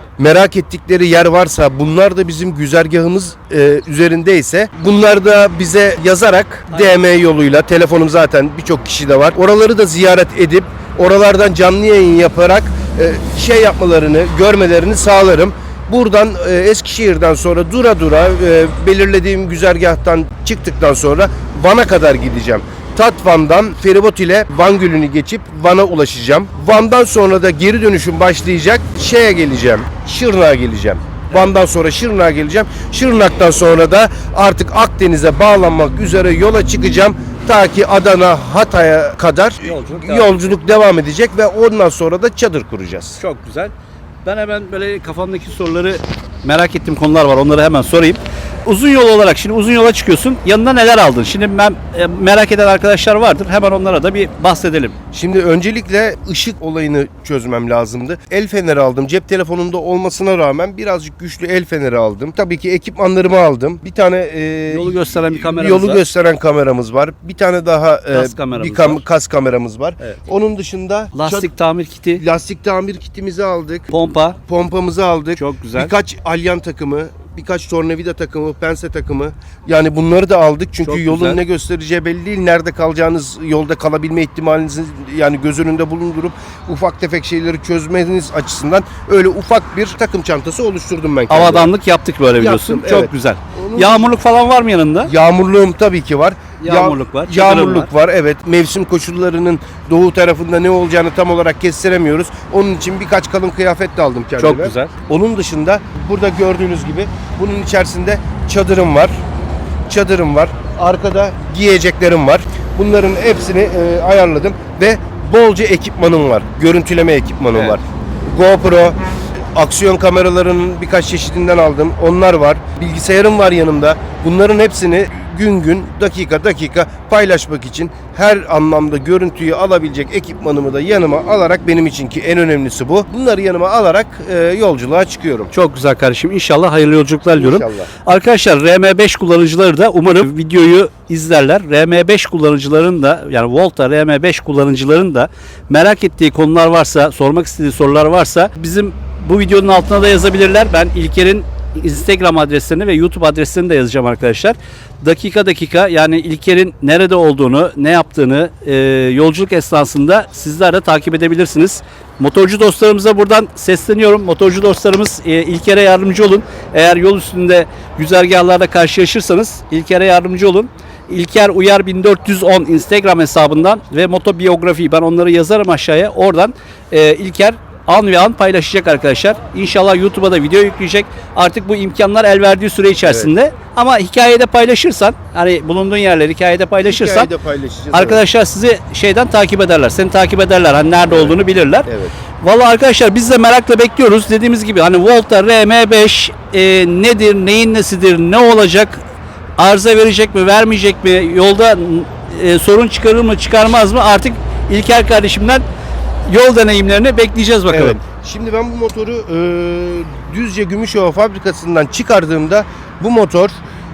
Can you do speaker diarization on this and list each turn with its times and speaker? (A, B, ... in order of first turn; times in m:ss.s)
0:00.2-0:43.2 A
0:06.7-0:06.9 B
0:39.6-0:40.6 B
0:43.2-0:43.7 B
0:44.2-0:54.9 B
0:55.1-1:11.5 A
1:04.7-1:06.0 B
1:08.1-1:09.0 B
1:11.1-1:12.2 B
1:12.2-1:13.9 A
1:13.9-1:14.4 B
1:14.5-1:31.7 A
1:15.4-1:15.9 B
1:20.8-1:21.4 B
1:31.3-1:35.1 B
1:32.4-1:34.1 A
1:35.0-1:49.2 A
1:36.6-1:37.9 B
1:44.4-1:44.9 B
1:49.9-1:59.0 A
1:59.5-2:15.5 A
2:15.5-3:07.3 B
2:17.3-2:17.9 A
3:03.0-3:03.3 A
3:06.8-3:08.2 A
3:07.9-3:11.9 B
3:11.1-3:12.1 A
3:12.4-3:19.0 B
3:19.6-3:25.6 B
3:26.3-3:28.0 B
3:27.7-3:33.6 A